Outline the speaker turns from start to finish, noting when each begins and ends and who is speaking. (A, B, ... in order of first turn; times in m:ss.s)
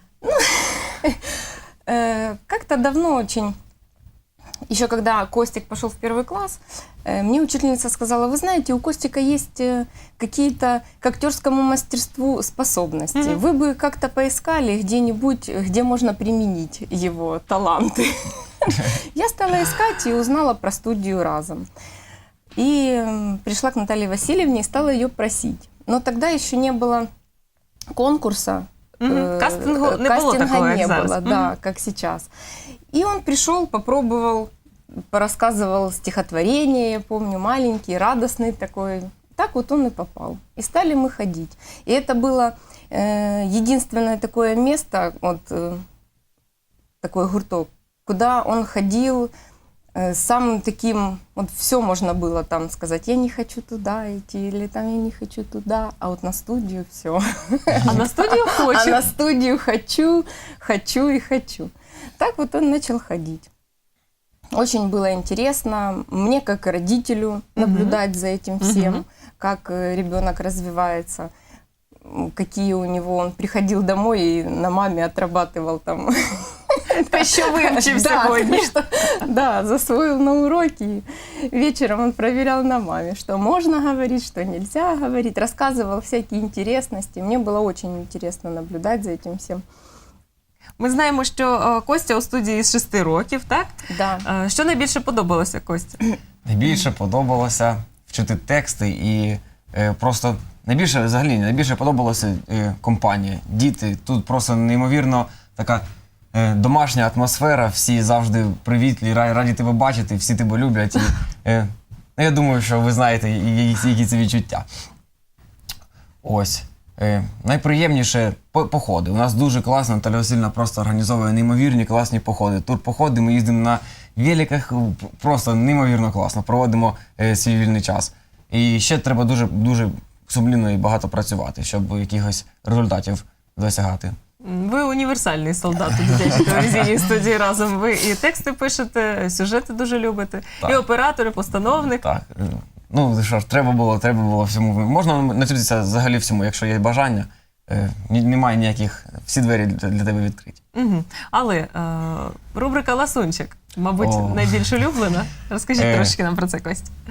0:00.2-0:01.4 A
0:01.9-0:03.6 A
0:04.7-0:21.7 A
0:13.2-0:13.4 B
0:22.6-0:27.1 A
0:27.9-0:32.3 A
0:29.0-0:31.5 B
0:32.9-0:34.5 A
0:35.1-0:45.8 A
0:47.0-0:49.3 A
0:50.0-1:03.5 A
0:57.8-0:59.0 B
1:04.5-1:11.3 A
1:07.6-1:08.0 B
1:08.6-1:09.0 B
1:12.1-1:29.6 A
1:16.9-1:18.7 B
1:30.8-1:36.0 B
1:33.9-1:34.2 A
1:36.5-1:54.7 C
1:56.2-2:14.2 C
2:14.4-2:22.0 B
2:21.8-2:30.6 C
2:30.7-2:36.9 B
2:34.0-2:34.4 C
2:35.8-2:36.1 C